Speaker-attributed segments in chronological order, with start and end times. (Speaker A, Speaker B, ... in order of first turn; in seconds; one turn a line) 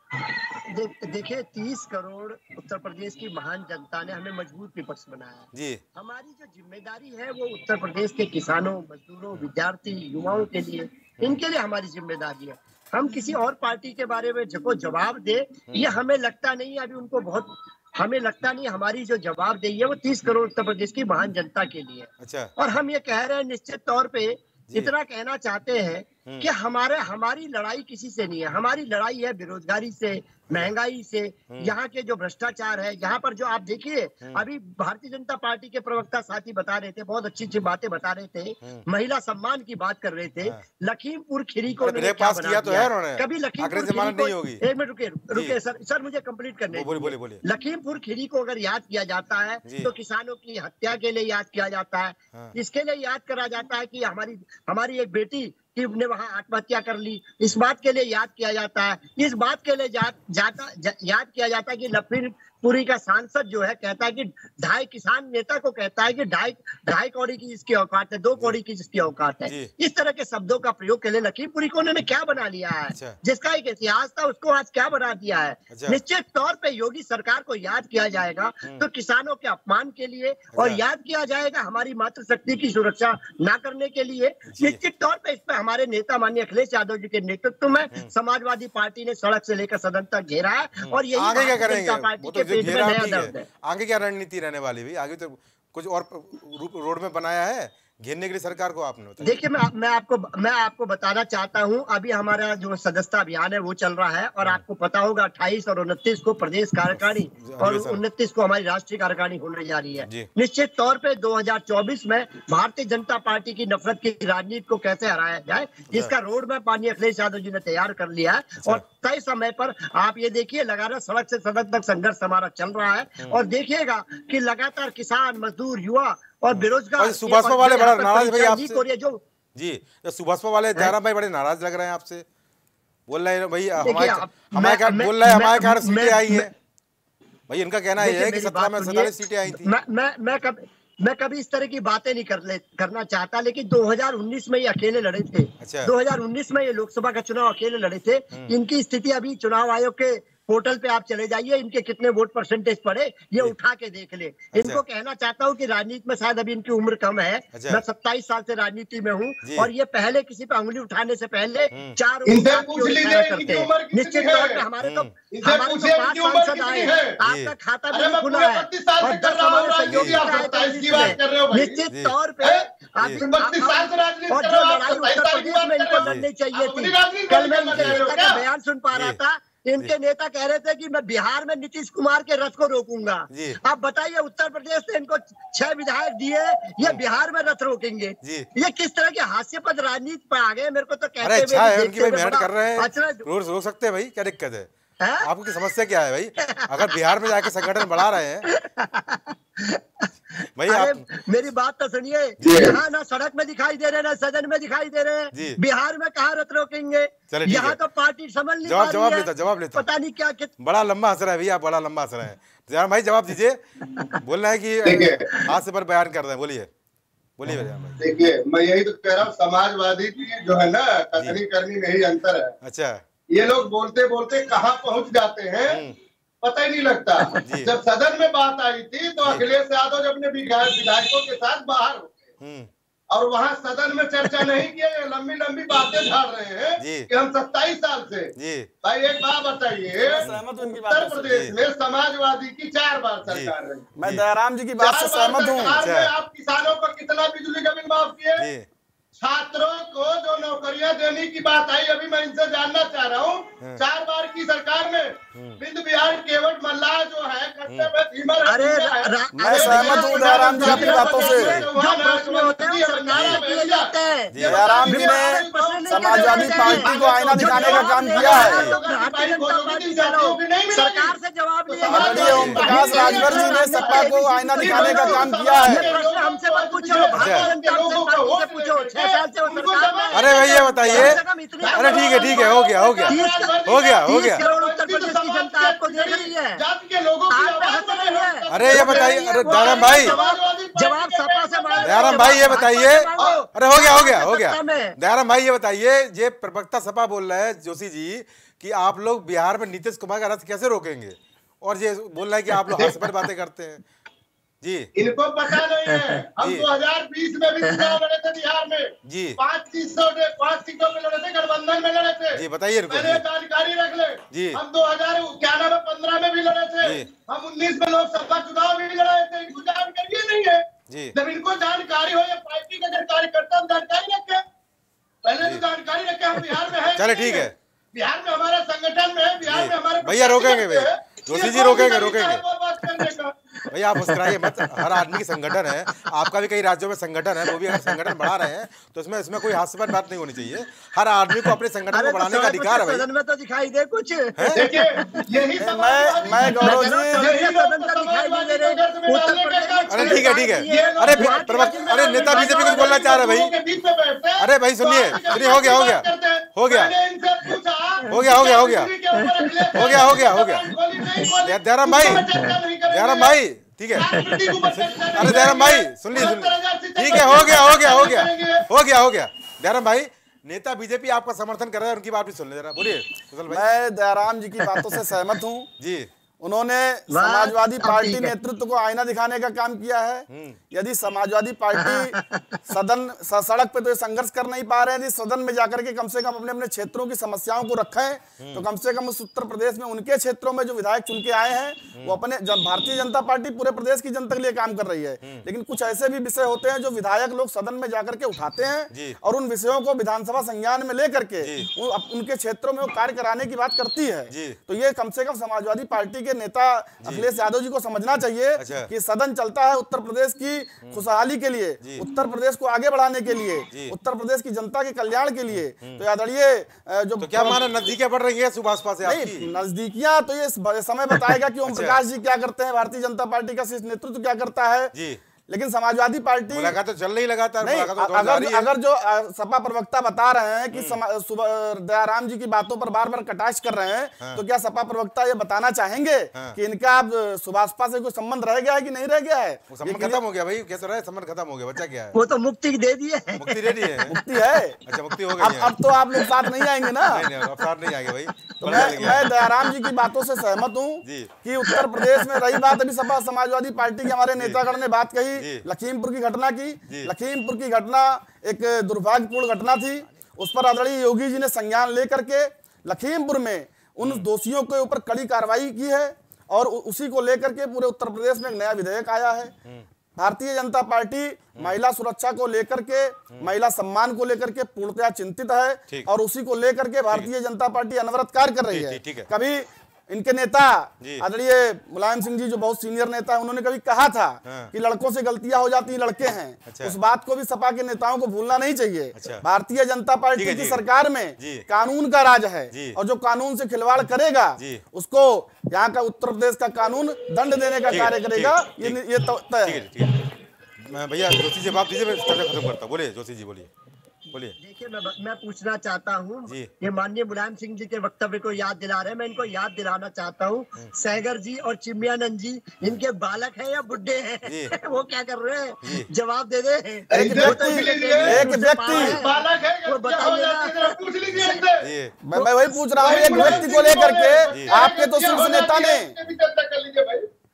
Speaker A: 0.5-93.5
Speaker B: 5.5-5.8
Speaker B: 15.7-16.0
Speaker B: 22.2-22.5
Speaker B: 41.8-44.6
Speaker B: 46.7-47.4
Speaker B: 69.5-69.7
Speaker B: 75.7-76.0
Speaker B: 80.5-80.8
Speaker B: 84.5-84.8
Speaker B: 90.8-99.5
Speaker A: 99.2-129.2
Speaker B: 107.0-108.0
Speaker B: 110.0-110.3
Speaker B: 126.5-128.8
Speaker B: 129.6-132.2
Speaker B: 133.1-136.5
Speaker A: 133.8-136.5
Speaker B: 137.5-139.7
Speaker A: 138.0-193.2
Speaker B: 145.6-145.9
Speaker B: 154.5-154.8
Speaker B: 157.5-157.8
Speaker B: 159.4-159.7
Speaker C: 162.3-164.6
Speaker B: 164.8-165.1
Speaker C: 165.3-167.2
Speaker B: 167.2-167.5
Speaker C: 167.9-171.8
Speaker B: 169.9-170.3
Speaker B: 170.9-171.2
Speaker C: 173.2-178.4
Speaker B: 183.3-183.6
Speaker B: 188.2-188.5
Speaker B: 191.2-194.7
Speaker A: 195.0-195.3
Speaker B: 195.2-198.5
Speaker A: 196.4-210.5
Speaker B: 200.6-201.1
Speaker B: 202.4-202.8
Speaker B: 205.3-205.6
Speaker B: 207.3-207.8
Speaker B: 208.7-209.9
Speaker B: 210.6-213.6
Speaker B: 214.1-216.7
Speaker C: 214.8-215.2
Speaker B: 217.4-218.0
Speaker C: 218.0-222.5
Speaker B: 222.6-223.0
Speaker C: 223.3-225.8
Speaker B: 225.7-225.9
Speaker C: 226.4-232.3
Speaker B: 227.4-227.7
Speaker B: 232.4-232.7
Speaker C: 233.1-243.9
Speaker B: 236.8-237.1
Speaker B: 238.4-238.7
Speaker D: 239.9-241.5
Speaker B: 241.3-241.6
Speaker B: 243.3-244.2
Speaker D: 244.0-245.8
Speaker C: 244.8-248.4
Speaker B: 245.8-246.1
Speaker B: 248.4-248.7
Speaker C: 249.2-271.1
Speaker B: 255.3-255.6
Speaker A: 258.5-282.6
Speaker D: 259.4-261.6
Speaker B: 261.3-261.7
Speaker B: 263.1-263.4
Speaker B: 264.3-264.7
Speaker D: 264.4-268.6
Speaker B: 268.4-268.8
Speaker C: 271.7-292.6
Speaker D: 271.9-275.9
Speaker B: 272.2-272.6
Speaker B: 277.2-277.5
Speaker B: 280.1-281.2
Speaker B: 281.8-284.4
Speaker A: 283.1-286.6
Speaker A: 287.3-295.0
Speaker B: 288.5-290.2
Speaker B: 291.8-303.8
Speaker A: 302.6-303.1
Speaker B: 304.6-304.9
Speaker C: 305.0-324.4
Speaker A: 305.5-306.1
Speaker B: 306.4-306.7
Speaker A: 307.6-308.0
Speaker B: 309.1-309.4
Speaker B: 312.4-313.2
Speaker B: 314.3-314.6
Speaker B: 320.9-321.2
Speaker C: 325.2-333.3
Speaker B: 327.0-327.6
Speaker B: 329.5-332.4
Speaker A: 332.9-336.3
Speaker B: 333.7-343.0
Speaker A: 337.4-338.3
Speaker A: 341.4-345.2
Speaker C: 344.5-363.4
Speaker D: 345.6-347.3
Speaker A: 346.6-353.0
Speaker B: 349.9-353.5
Speaker B: 354.4-356.9
Speaker B: 358.1-358.9
Speaker A: 359.2-360.2
Speaker B: 359.7-360.7
Speaker A: 361.0-361.3
Speaker B: 361.4-362.3
Speaker A: 362.0-362.5
Speaker B: 362.9-364.1
Speaker C: 363.9-368.7
Speaker A: 364.2-364.6
Speaker B: 364.7-373.7
Speaker D: 373.5-375.7
Speaker B: 375.8-376.1
Speaker D: 376.4-382.2
Speaker A: 377.1-378.3
Speaker B: 380.3-380.6
Speaker A: 381.8-382.6
Speaker D: 382.7-417.7
Speaker B: 388.4-388.6
Speaker B: 398.9-399.2
Speaker B: 401.4-401.7
Speaker B: 404.3-404.6
Speaker B: 408.6-408.9
Speaker B: 415.5-416.0
Speaker B: 417.2-419.5
Speaker D: 419.1-424.9
Speaker B: 421.6-422.0
Speaker B: 424.9-425.2
Speaker D: 425.5-426.8
Speaker B: 426.5-428.7
Speaker D: 427.6-440.2
Speaker B: 430.7-431.0
Speaker B: 439.7-442.1
Speaker A: 442.1-444.1
Speaker B: 443.4-444.1
Speaker D: 444.1-444.8
Speaker B: 444.9-445.7
Speaker D: 445.4-447.3
Speaker B: 447.1-449.3
Speaker D: 448.6-469.5
Speaker A: 449.6-449.9
Speaker B: 451.0-451.3
Speaker A: 451.7-452.6
Speaker B: 454.4-454.6
Speaker B: 455.4-455.6
Speaker B: 464.0-464.3
Speaker D: 470.2-499.9
Speaker B: 478.7-479.3
Speaker B: 481.0-481.3
Speaker B: 484.4-484.7
Speaker B: 486.7-486.9
Speaker B: 489.2-489.4
Speaker B: 490.4-490.8
Speaker B: 491.4-491.6
Speaker B: 492.7-493.0
Speaker B: 494.6-494.8
Speaker B: 497.9-499.0
Speaker B: 499.6-500.2
Speaker B: 500.8-503.7
Speaker A: 504.6-521.6
Speaker B: 514.5-514.7
Speaker B: 515.8-516.1
Speaker C: 517.1-521.9
Speaker D: 517.1-519.2
Speaker B: 518.2-519.0
Speaker B: 521.3-523.7
Speaker D: 522.2-526.1
Speaker C: 523.0-527.3
Speaker B: 524.5-524.8